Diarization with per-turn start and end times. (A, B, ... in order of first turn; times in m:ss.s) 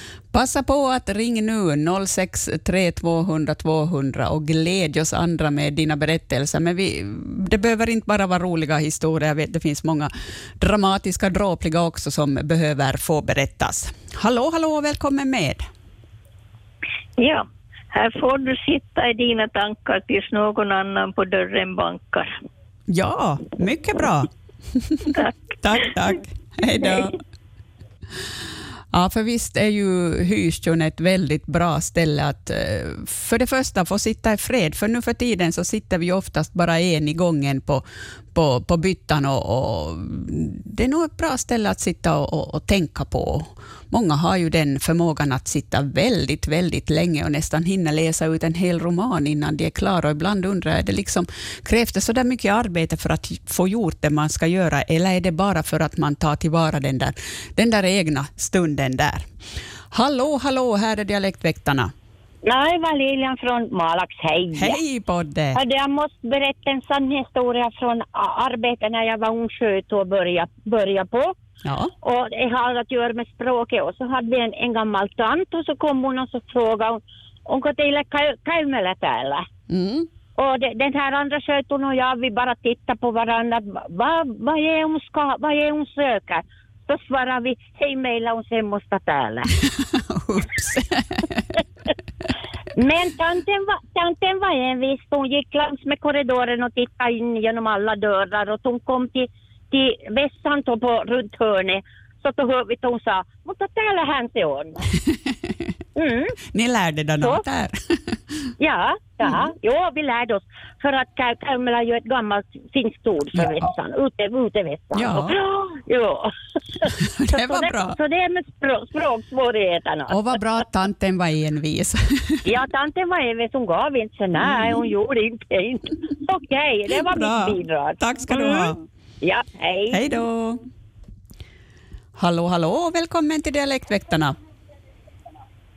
0:00.3-0:15.7 A
0:17.2-0:22.3 B
0:22.9-0:27.2 A
0:28.9-0:59.2 A
0:59.9-1:01.9 A
1:02.4-1:04.8 C
1:04.5-1:05.6 A
1:05.6-1:11.3 C
1:11.6-1:11.9 A
1:12.0-1:19.4 C
1:19.7-1:20.1 A
1:20.4-1:29.4 C
1:29.9-1:31.4 A
1:32.8-1:44.7 C
1:46.0-1:46.3 C
1:46.4-1:47.8 A
1:48.6-1:56.3 C
1:54.9-1:55.4 A
1:57.0-1:58.0 A
1:57.4-2:00.1 C
2:00.1-2:02.5 A
2:02.5-2:08.5 C
2:04.4-2:04.8 A
2:06.9-2:08.8 A
2:09.2-2:10.0 C
2:09.9-2:10.6 A
2:12.2-2:14.4 A